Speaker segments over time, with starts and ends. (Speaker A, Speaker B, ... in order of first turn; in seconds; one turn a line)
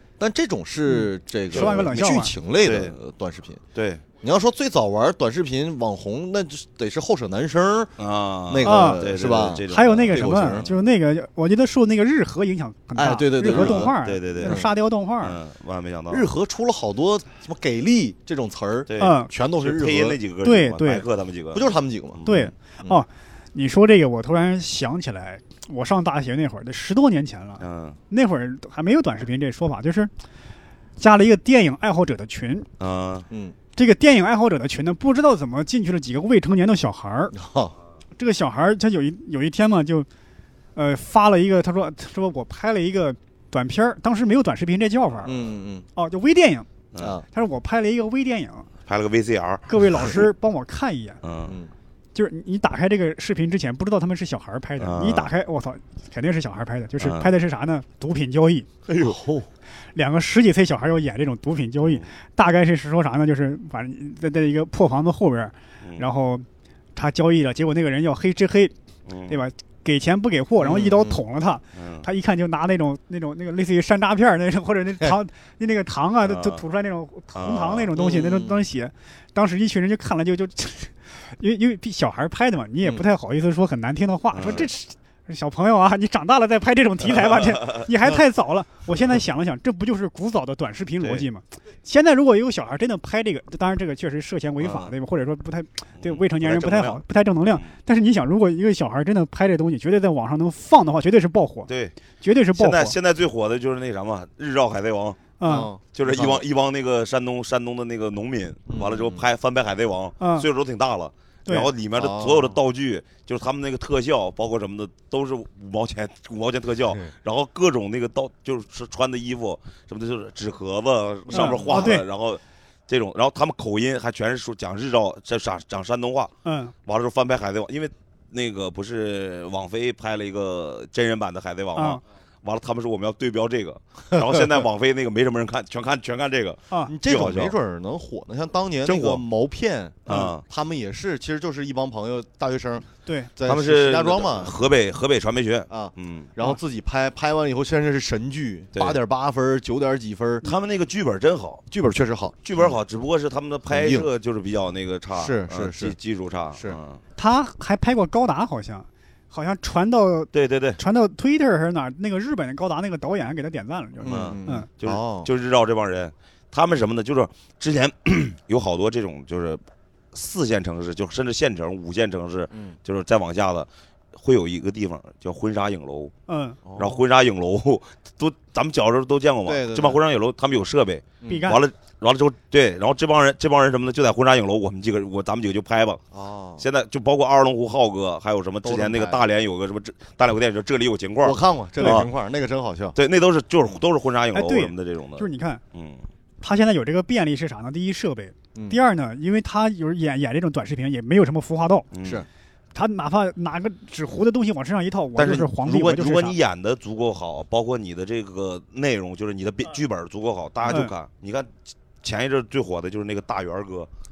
Speaker A: 0.2-3.6
Speaker B: 0.9-2.3
Speaker C: 1.5-1.9
Speaker C: 2.6-3.0
Speaker C: 3.8-4.0
Speaker A: 4.2-7.9
Speaker C: 8.0-10.8
Speaker A: 8.5-10.7
Speaker B: 8.6-9.0
Speaker B: 9.7-15.4
Speaker A: 12.9-14.7
Speaker C: 13.4-14.7
Speaker C: 15.2-16.3
Speaker A: 16.1-20.2
Speaker C: 18.9-22.5
Speaker B: 19.0-19.3
Speaker B: 20.4-21.1
Speaker A: 21.5-22.3
Speaker B: 22.3-30.1
Speaker C: 27.6-28.0
Speaker B: 31.0-32.7
Speaker C: 32.8-33.3
Speaker A: 33.3-33.6
Speaker B: 33.8-37.4
Speaker A: 37.3-37.8
Speaker B: 38.2-40.1
Speaker B: 40.8-45.4
Speaker A: 45.2-45.9
Speaker B: 46.0-46.7
Speaker C: 46.9-47.2
Speaker A: 47.0-47.2
Speaker B: 47.3-48.7
Speaker C: 48.9-50.2
Speaker B: 49.7-51.2
Speaker C: 51.2-51.6
Speaker A: 51.5-51.7
Speaker B: 52.1-58.7
Speaker C: 54.8-55.3
Speaker C: 57.0-57.3
Speaker C: 58.9-59.2
Speaker A: 59.0-59.5
Speaker B: 59.9-68.7
Speaker C: 69.1-69.4
Speaker B: 69.3-103.0
Speaker A: 70.6-71.2
Speaker C: 71.8-72.1
Speaker C: 76.2-76.6
Speaker C: 77.3-77.9
Speaker A: 78.0-78.7
Speaker C: 84.3-84.7
Speaker C: 87.1-87.9
Speaker C: 91.0-91.3
Speaker C: 94.6-95.0
Speaker C: 96.0-97.0
Speaker C: 101.7-102.0
Speaker C: 102.5-126.3
Speaker B: 105.4-105.7
Speaker A: 105.4-106.5
Speaker A: 108.7-109.2
Speaker B: 110.2-110.5
Speaker A: 111.9-112.6
Speaker A: 121.3-122.0
Speaker B: 121.3-122.1
Speaker B: 126.5-126.7
Speaker C: 126.9-137.5
Speaker B: 131.8-132.0
Speaker A: 136.9-144.7
Speaker C: 138.8-139.2
Speaker C: 140.1-140.4
Speaker B: 140.1-140.3
Speaker C: 143.4-146.3
Speaker A: 145.7-150.4
Speaker C: 150.4-151.7
Speaker A: 151.7-152.8
Speaker C: 152.4-157.0
Speaker A: 153.7-154.1
Speaker A: 155.2-156.0
Speaker B: 157.2-164.7
Speaker C: 160.3-160.8
Speaker A: 164.0-165.3
Speaker C: 164.0-169.6
Speaker C: 170.1-176.1
Speaker A: 172.5-172.8
Speaker B: 176.3-176.6
Speaker A: 176.7-177.0
Speaker C: 176.8-186.0
Speaker A: 179.4-180.0
Speaker A: 181.2-181.5
Speaker B: 181.3-181.6
Speaker A: 186.1-186.7
Speaker C: 186.6-192.1
Speaker A: 188.6-189.2
Speaker A: 191.2-193.0
Speaker B: 191.8-192.1
Speaker C: 193.0-196.1
Speaker B: 194.3-195.6
Speaker B: 196.4-201.9
Speaker C: 201.9-202.3
Speaker B: 202.8-206.4
Speaker C: 205.2-211.5
Speaker C: 212.0-213.9